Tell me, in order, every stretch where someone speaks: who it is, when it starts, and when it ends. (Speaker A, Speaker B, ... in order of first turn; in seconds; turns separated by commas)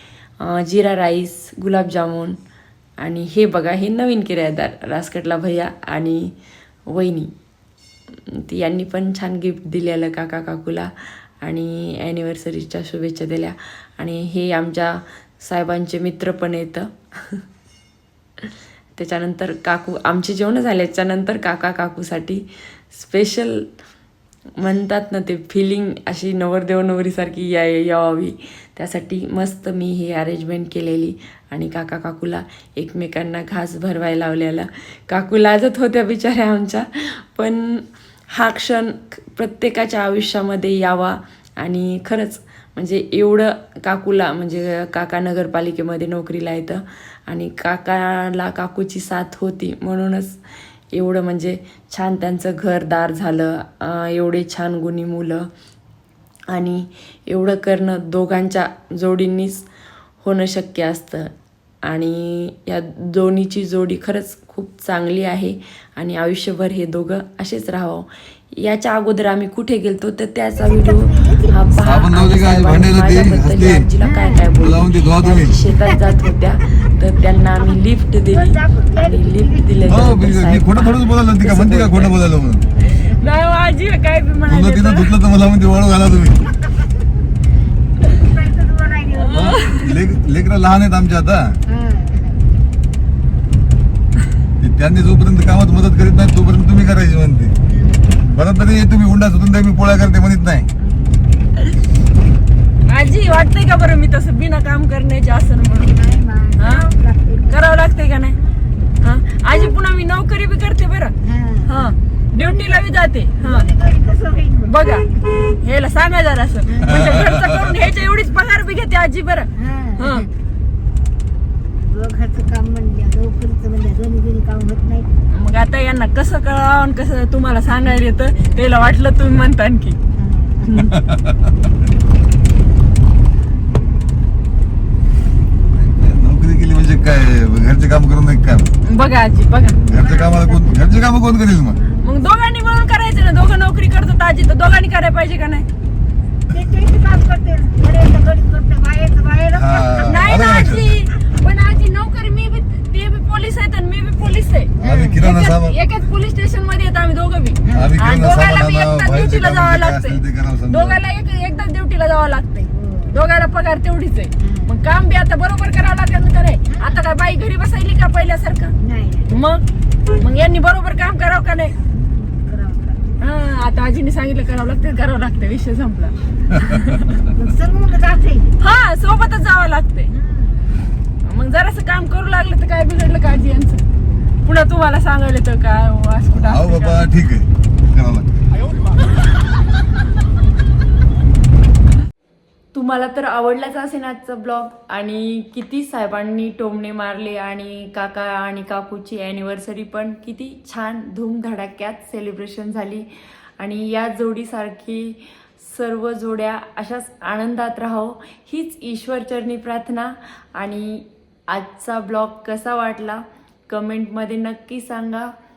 Speaker A: 0.4-2.4, Speaker A: 3.0-6.3, Speaker A: 6.9-7.3, Speaker A: 8.1-17.4, Speaker A: 19.0-23.7, Speaker A: 24.6-55.5, Speaker A: 56.5-59.7, Speaker A: 60.2-61.3, Speaker A: 61.8-82.2, Speaker B: 70.6-71.6, Speaker C: 71.8-73.9, Speaker B: 74.0-74.5, Speaker C: 74.6-75.5, Speaker B: 78.3-79.7, Speaker C: 79.8-82.6, Speaker B: 82.8-83.2, Speaker A: 83.1-85.1, Speaker C: 84.5-86.4, Speaker B: 88.1-89.6, Speaker A: 89.2-90.0, Speaker C: 89.3-91.6, Speaker B: 91.7-92.5, Speaker C: 94.6-97.5, Speaker B: 97.7-98.2, Speaker C: 98.2-100.7, Speaker B: 100.8-101.2, Speaker A: 102.9-106.0, Speaker B: 105.9-107.6, Speaker A: 106.6-106.9, Speaker A: 107.5-108.4, Speaker A: 109.0-111.1, Speaker B: 111.2-111.7, Speaker A: 111.7-113.7, Speaker B: 112.4-112.8, Speaker B: 113.4-115.2, Speaker A: 114.7-120.3, Speaker B: 116.7-117.1, Speaker B: 119.6-120.3, Speaker B: 121.8-125.1, Speaker A: 125.3-130.0, Speaker B: 130.2-130.7, Speaker A: 130.7-130.9, Speaker C: 135.8-138.7, Speaker A: 138.8-139.8, Speaker B: 139.7-140.8, Speaker C: 139.9-141.8, Speaker B: 141.8-142.2, Speaker A: 142.0-145.7, Speaker B: 146.5-150.4, Speaker C: 149.5-150.9, Speaker A: 150.1-154.7, Speaker B: 154.8-155.2, Speaker C: 154.8-155.8, Speaker A: 155.2-168.7, Speaker B: 157.7-157.9, Speaker C: 157.7-161.0, Speaker B: 162.6-163.2, Speaker B: 164.4-164.7, Speaker B: 168.8-169.3, Speaker A: 169.3-171.8, Speaker B: 171.9-173.2, Speaker A: 173.2-177.0, Speaker B: 177.3-178.6, Speaker A: 178.6-180.1, Speaker B: 180.1-180.8, Speaker A: 181.2-183.8, Speaker A: 184.4-187.1, Speaker C: 186.3-188.3, Speaker A: 192.7-215.3